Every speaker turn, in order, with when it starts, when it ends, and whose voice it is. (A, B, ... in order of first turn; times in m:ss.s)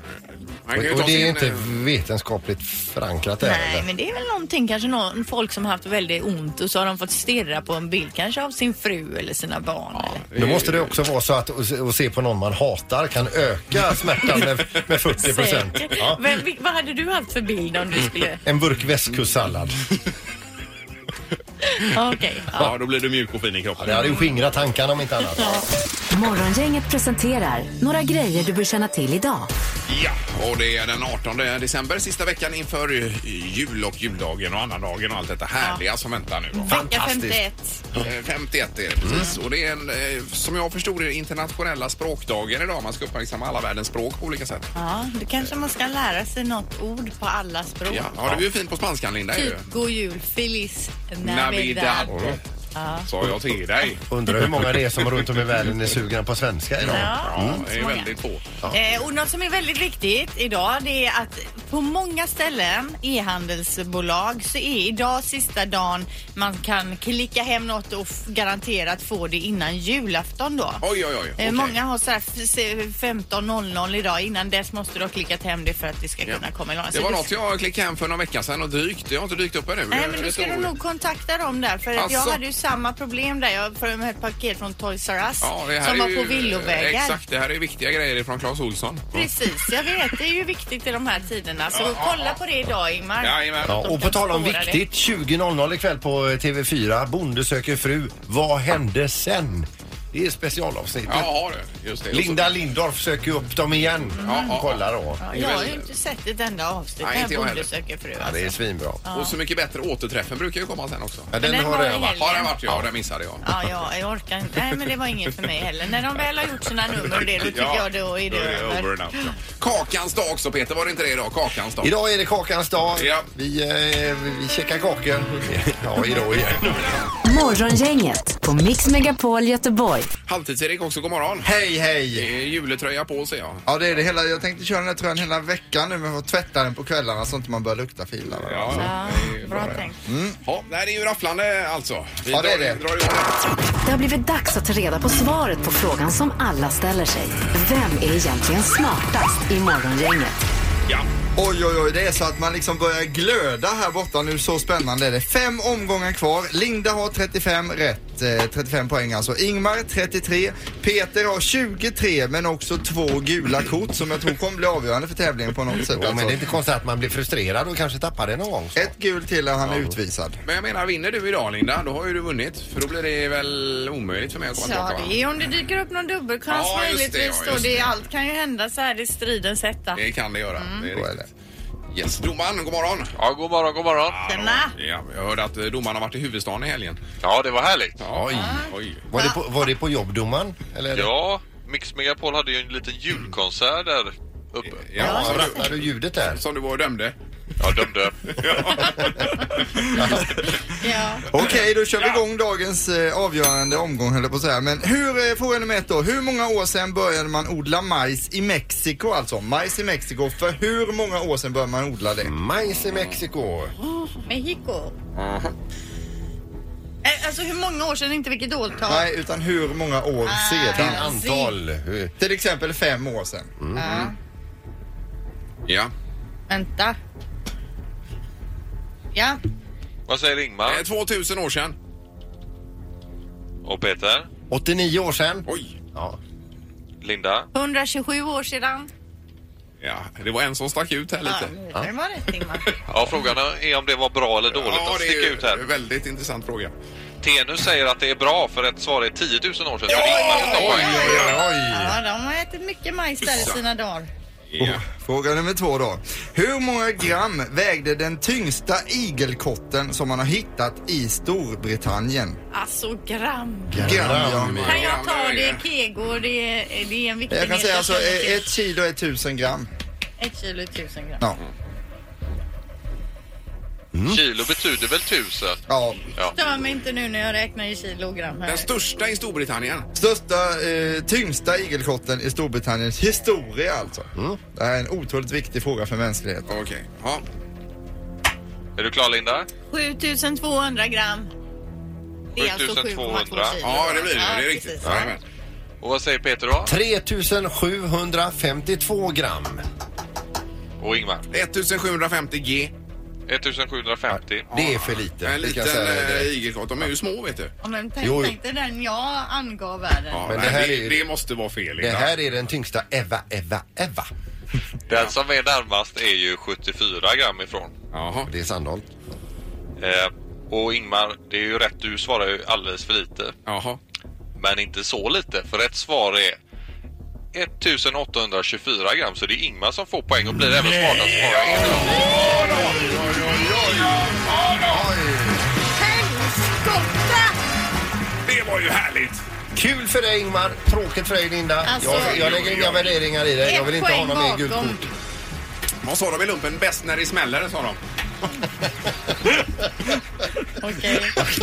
0:00.6-0:01.8 A
0:00.7-0:03.9 B
0:03.4-0:10.2 C
0:09.9-0:11.0 A
0:10.3-0:16.2 B
0:15.2-0:18.4 C
0:18.4-0:19.9 B
0:21.6-0:22.7 C
0:22.6-0:24.2 A
0:23.8-0:25.6 B
0:25.4-0:25.6 C
0:26.1-0:29.5 D
0:29.9-0:36.7 A
0:36.5-0:37.8 C
0:36.7-0:37.4 B
0:38.0-0:44.7 A
0:39.0-0:39.3 B
0:44.7-0:48.1 C
0:47.9-0:49.7 A
0:49.3-0:52.1 C
0:51.2-0:52.4 A
0:52.1-0:52.4 B
0:52.7-0:53.1 C
0:53.0-0:55.4 A
0:54.1-0:57.6 B
0:56.8-0:58.1 C
0:56.9-0:58.4 A
0:58.7-1:10.8 C
1:10.8-1:11.7 A
1:11.4-1:17.3 C
1:16.2-1:20.7 A
1:19.9-1:27.2 C
1:22.0-1:22.4 A
1:25.4-1:29.2 A
1:29.1-1:34.8 C
1:31.7-1:32.4 A
1:33.2-1:33.8 A
1:33.6-1:41.3 B
1:41.1-1:42.5 A
1:42.1-1:45.2 B
1:44.2-1:44.5 C
1:44.2-1:45.9 A
1:45.2-1:49.3 C
1:47.0-1:47.7 A
1:48.2-1:49.0 B
1:49.1-1:51.3 A
1:51.3-1:52.9 B
1:51.4-1:52.5 C
1:52.1-1:53.4 A
1:53.4-1:59.3 C
1:57.1-2:01.9 A
2:01.8-2:07.0 B
2:03.0-2:03.3 A
2:07.2-2:10.1 D
2:10.3-2:11.5 A
2:11.4-2:12.3 E
2:12.1-2:13.6 A
2:13.7-2:18.9 E
2:18.4-2:19.8 A
2:18.8-2:20.0 C
2:20.0-2:20.4 E
2:20.4-2:23.5 A
2:22.3-2:22.8 E
2:23.8-2:30.4 D
2:31.4-2:46.5 E
2:45.9-2:48.9 B
2:48.8-2:50.4 E
2:50.4-2:55.2 A
2:54.6-3:00.0 C
2:56.5-2:58.0 A
2:59.9-3:01.3 A
3:00.6-3:00.9 C
3:01.9-3:03.1 A
3:03.2-3:04.2 F
3:04.1-3:07.0 A
3:04.3-3:04.7 C
3:07.2-3:08.0 F
3:08.0-3:09.0 A
3:08.1-3:11.1 B
3:08.3-3:09.4 C
3:10.9-3:14.9 F
3:14.7-3:17.1 A
3:15.0-3:16.4 B
3:15.0-3:15.6 C
3:17.6-3:18.9 F
3:18.3-3:19.5 A
3:20.0-3:20.4 B
3:20.8-3:21.3 C
3:21.3-3:32.3 E
3:21.4-3:22.2 A
3:32.2-3:33.7 B
3:34.3-3:34.9 C
3:35.1-3:35.5 A
3:37.0-3:39.1 C
3:38.9-3:41.0 E
3:40.2-3:41.5 C
3:40.7-3:42.1 B
3:42.2-3:43.5 E
3:43.6-3:44.0 B
3:43.7-3:44.1 C
3:43.8-3:44.1 A
3:45.7-3:45.9 A
3:46.5-3:47.0 C
3:49.1-3:49.4 C
3:50.1-3:50.8 F
3:50.6-3:51.8 A
3:53.6-3:54.3 F
3:54.5-3:56.2 B
3:55.4-3:55.7 A
3:57.0-3:57.5 F
3:57.5-3:58.9 C
3:59.8-4:01.5 A
4:01.2-4:02.7 C
4:02.7-4:03.2 A
4:02.9-4:05.6 F
4:04.5-4:06.7 A
4:07.2-4:11.3 F
4:09.9-4:11.4 A
4:10.0-4:11.7 E
4:10.6-4:14.1 C
4:11.1-4:11.8 B
4:13.3-4:13.6 A
4:14.5-4:14.8 A
4:14.6-4:22.4 E
4:22.5-4:28.5 C
4:23.7-4:24.8 B
4:23.8-4:24.7 E
4:24.5-4:25.6 A
4:27.3-4:29.7 E
4:30.2-4:31.2 C
4:33.9-4:34.2 B
4:34.1-4:35.6 F
4:35.7-4:36.1 E
4:36.2-4:38.7 C
4:38.4-4:39.9 A
4:40.0-4:46.6 E
4:46.5-4:47.2 A
4:48.8-4:49.5 F
4:49.7-4:51.3 C
4:52.4-4:53.6 F
4:52.4-4:55.0 C
4:53.6-4:55.2 A
4:54.8-4:55.1 B
4:55.8-4:56.7 F
4:56.6-4:59.6 B
5:00.8-5:01.3 F
5:01.3-5:02.7 A
5:03.3-5:04.4 F
5:04.1-5:06.3 B
5:04.5-5:07.5 A
5:07.6-5:10.2 C
5:08.0-5:08.4 B
5:10.1-5:12.1 A
5:10.3-5:11.1 B
5:11.8-5:14.1 B
5:14.9-5:17.7 F
5:17.9-5:18.3 A
5:18.2-5:18.8 B
5:19.8-5:23.3 F
5:23.4-5:23.8 A
5:24.4-5:26.4 F
5:27.3-5:32.1 F
5:30.8-5:34.9 A
5:34.7-5:35.5 B
5:35.7-5:37.3 C
5:38.2-5:39.2 A
5:39.5-5:44.9 B
5:41.6-5:42.2 C
5:41.8-5:43.0 A
5:43.4-5:44.8 C
5:45.8-5:47.8 A
5:50.6-5:51.2 C